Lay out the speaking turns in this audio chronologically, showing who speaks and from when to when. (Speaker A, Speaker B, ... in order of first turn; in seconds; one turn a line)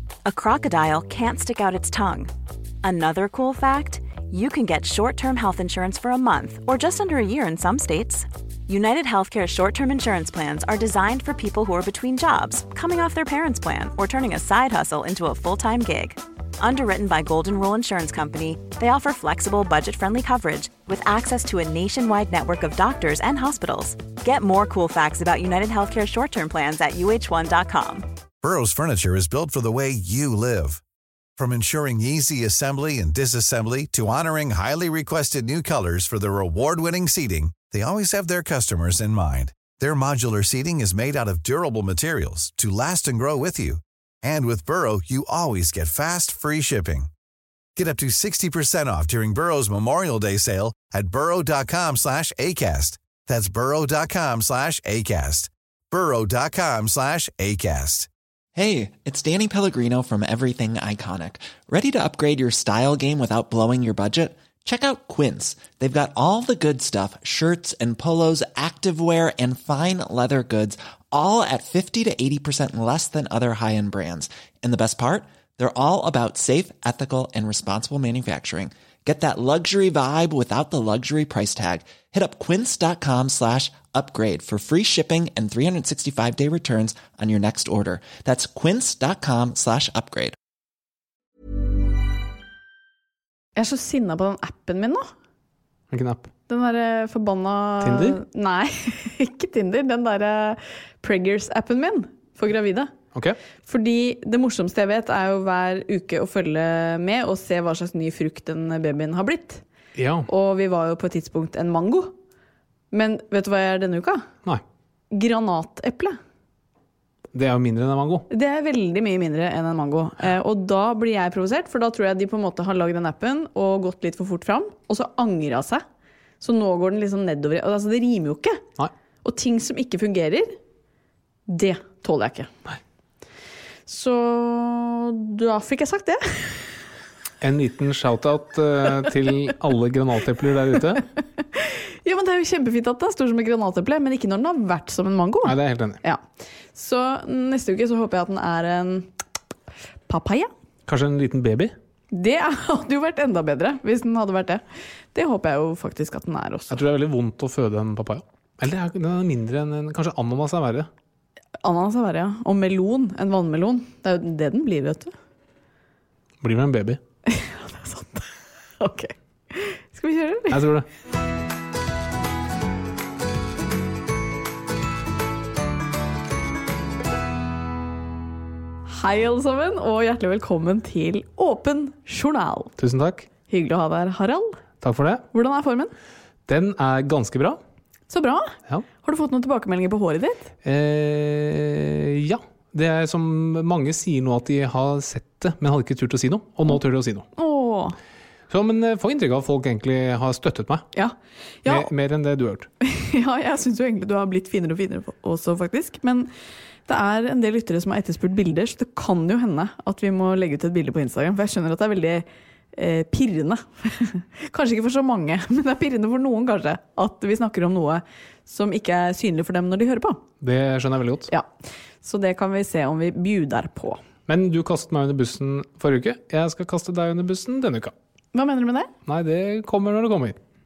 Speaker A: 0.2-2.3
Speaker A: 2.8-28.1
Speaker B: 28.4-30.8
Speaker B: 31.4-47.1
Speaker B: 47.8-58.1
Speaker C: 58.5-90.3
Speaker D: 93.5-95.1
Speaker E: 95.9-96.3
Speaker D: 96.5-102.9
Speaker E: 97.8-98.2
Speaker D: 103.7-109.6
Speaker E: 109.9-110.3
Speaker D: 110.3-112.1
Speaker D: 112.9-114.2
Speaker D: 115.1-116.2
Speaker E: 117.3-118.2
Speaker D: 118.3-125.8
Speaker D: 126.4-128.6
Speaker D: 129.2-130.6
Speaker D: 131.5-132.5
Speaker D: 133.9-136.8
Speaker E: 137.4-141.0
Speaker D: 141.5-146.2
Speaker E: 145.4-146.0
Speaker D: 146.7-149.1
Speaker D: 150.1-150.5
Speaker E: 150.9-151.7
Speaker D: 152.1-156.8
Speaker E: 156.7-160.9
Speaker D: 161.6-165.1
Speaker E: 166.4-167.0
Speaker D: 167.3-170.6
Speaker E: 170.5-170.9
Speaker D: 178.9-182.7
Speaker E: 182.8-183.3
Speaker D: 183.5-184.6
Speaker E: 184.8-185.2
Speaker D: 185.3-185.9
Speaker E: 186.5-187.6
Speaker D: 188.1-190.5
Speaker E: 190.6-197.2
Speaker D: 197.4-197.9
Speaker E: 198.5-200.9
Speaker D: 200.9-201.9
Speaker E: 201.7-202.7
Speaker D: 202.8-206.3
Speaker D: 206.8-220.2
Speaker E: 220.4-221.3
Speaker D: 222.0-224.0
Speaker E: 224.3-227.9
Speaker D: 228.3-228.9
Speaker E: 229.1-230.4